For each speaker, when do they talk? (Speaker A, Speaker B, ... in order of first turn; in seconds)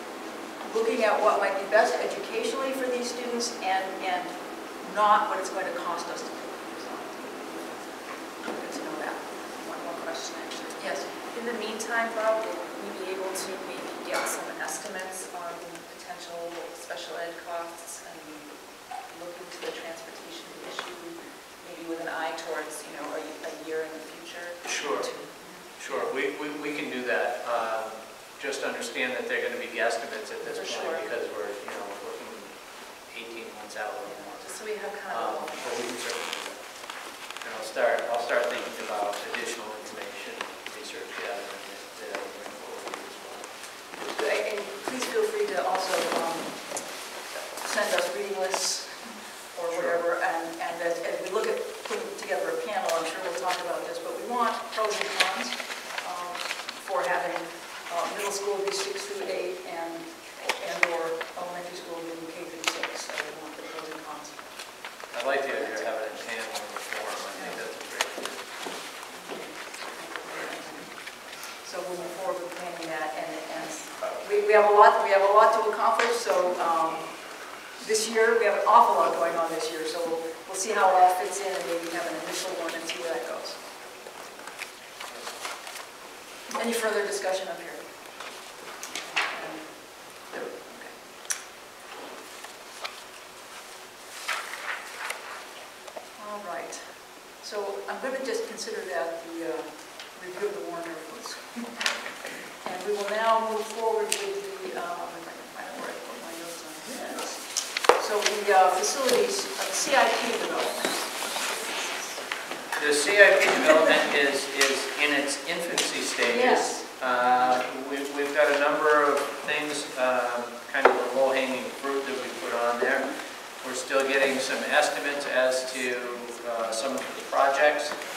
Speaker A: 0.6-9.5, 10.8-11.1, 44.1-64.9, 65.5-65.9, 70.0-83.6, 86.5-87.9, 89.2-91.0, 96.2-101.9, 102.5-111.1, 116.2-116.9
Speaker B: 9.5-26.1, 30.4-31.1, 34.0-36.0
Speaker C: 24.6-43.6, 49.7-50.0, 65.1-68.5, 112.8-128.0